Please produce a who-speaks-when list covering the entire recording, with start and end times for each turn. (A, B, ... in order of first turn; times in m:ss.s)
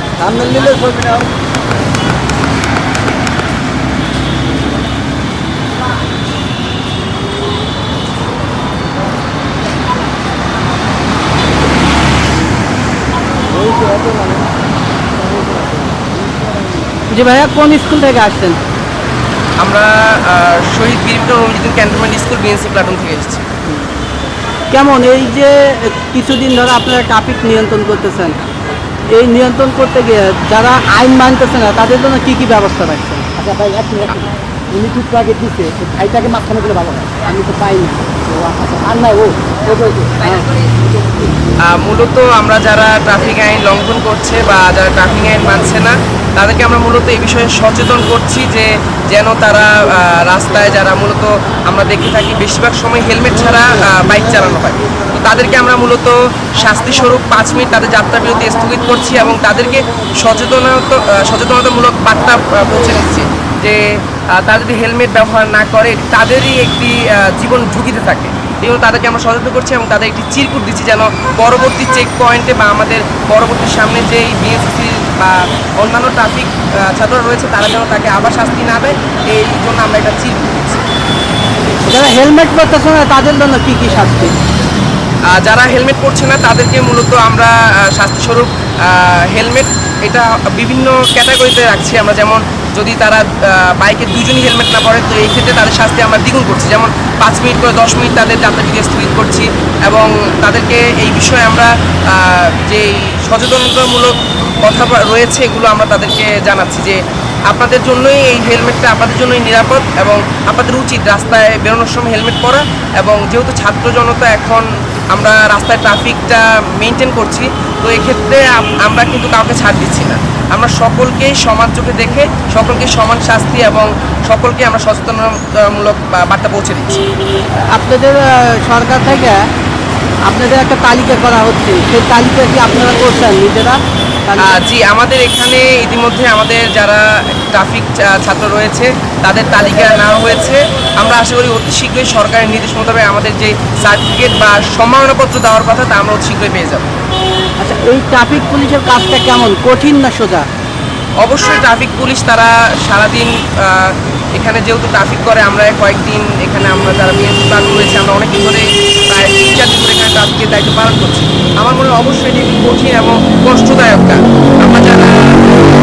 0:00.2-0:01.3 A
0:13.5-0:14.5 A
0:15.2-0:16.8 A
0:17.1-0:18.6 B
0:19.6-0:23.5 C
0:24.7-0:28.4 B
0:29.1-0:33.3 B
0:33.4-0:40.2 A
0:40.2-0:40.5 B
0:41.6-1:20.9 C
1:21.9-1:24.3 B
1:25.3-2:07.1 C
2:07.7-2:09.5 B
2:10.3-2:14.5 B
2:14.4-2:26.9 C
2:27.6-2:30.5 B
2:31.2-2:45.4 C